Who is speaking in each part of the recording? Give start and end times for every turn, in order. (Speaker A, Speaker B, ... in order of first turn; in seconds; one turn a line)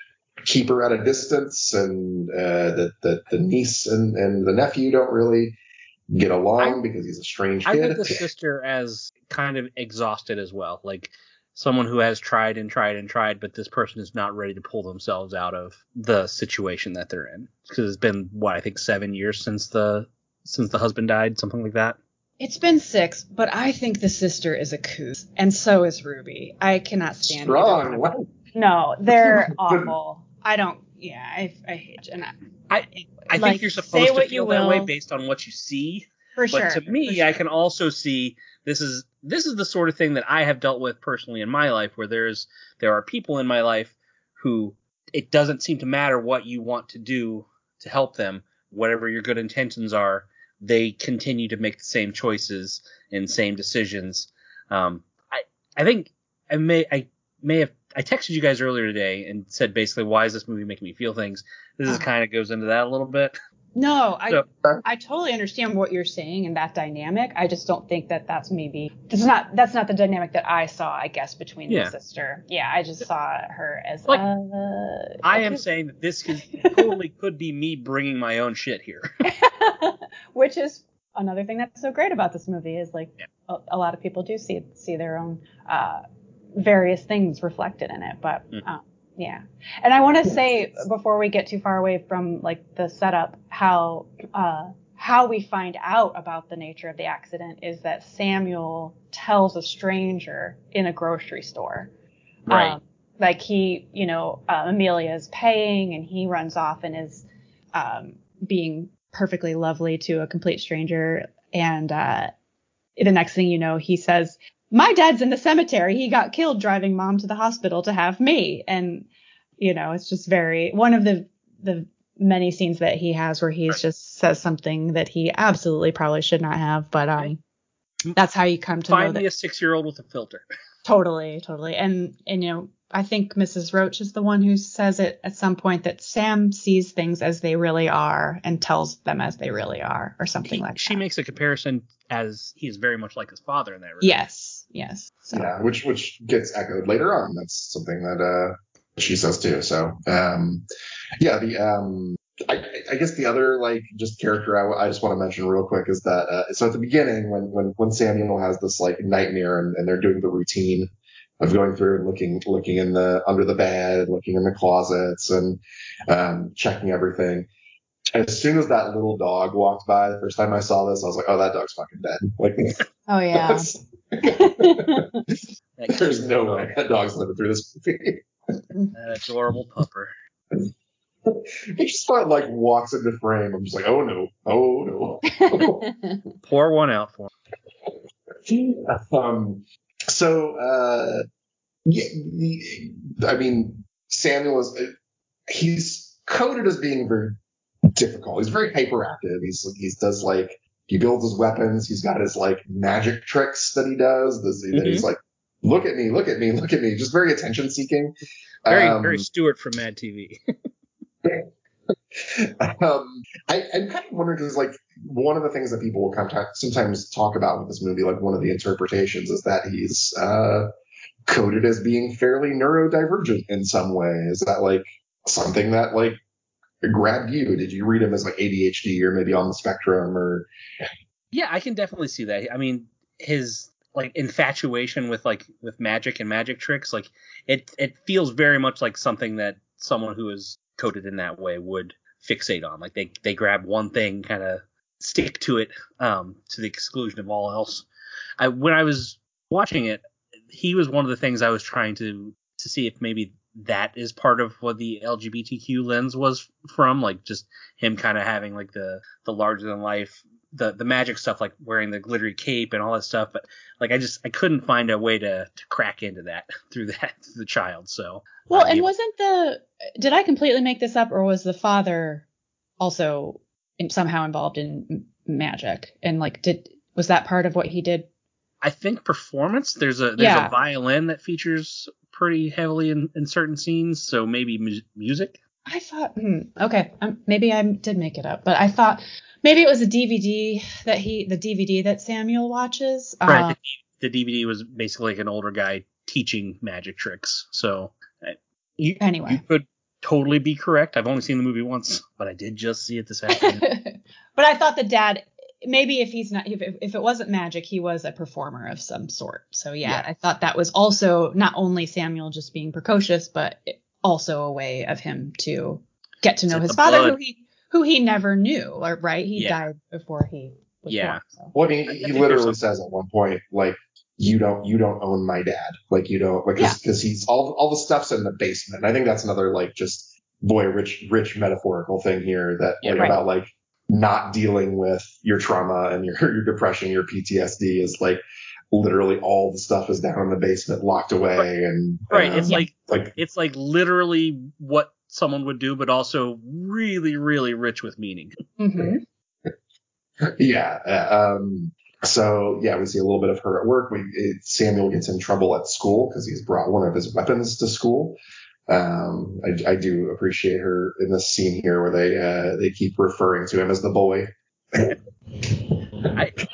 Speaker A: 0.4-5.6
Speaker A: 6.1-8.2
Speaker B: 7.7-22.0
Speaker C: 22.4-32.4
Speaker A: 27.2-28.3
Speaker A: 29.2-29.9
Speaker B: 32.7-63.4
Speaker C: 33.3-34.9
Speaker C: 36.4-37.4
Speaker C: 63.8-75.6
Speaker B: 71.7-71.9
Speaker B: 75.2-79.1
Speaker C: 76.4-76.9
Speaker C: 79.2-86.0
Speaker C: 86.6-101.9
Speaker B: 102.5-102.8
Speaker C: 102.5-112.4
Speaker C: 113.0-119.1
Speaker C: 119.6-127.4
Speaker C: 128.2-129.2
Speaker B: 128.9-130.4
Speaker C: 130.8-141.0
Speaker B: 140.4-144.1
Speaker C: 144.0-145.5
Speaker A: 145.3-150.7
Speaker A: 151.2-160.9
Speaker A: 161.4-167.5
Speaker A: 168.1-172.8
Speaker C: 173.1-173.7
Speaker A: 173.3-178.6
Speaker C: 174.2-175.2
Speaker B: 175.8-176.8
Speaker B: 178.9-180.1
Speaker A: 181.2-185.8
Speaker C: 185.3-186.2
Speaker B: 186.4-187.3
Speaker A: 187.9-191.2
Speaker A: 191.9-194.9
Speaker A: 195.5-197.4
Speaker A: 197.9-208.1
Speaker B: 204.7-205.1
Speaker A: 208.7-209.2
Speaker B: 208.7-210.4
Speaker A: 211.2-220.7
Speaker A: 221.3-226.2
Speaker A: 226.8-230.5
Speaker B: 231.3-247.9
Speaker B: 248.4-268.9
Speaker C: 268.5-272.3
Speaker C: 272.8-278.1
Speaker B: 278.6-285.4
Speaker C: 280.2-280.5
Speaker C: 285.7-293.6
Speaker B: 293.3-303.6
Speaker C: 299.0-299.4
Speaker C: 303.3-321.5
Speaker B: 316.5-317.2
Speaker B: 320.9-321.2
Speaker A: 321.5-343.1
Speaker B: 321.9-322.6
Speaker B: 332.8-333.2
Speaker B: 342.1-348.4
Speaker C: 348.6-349.0
Speaker A: 350.4-365.8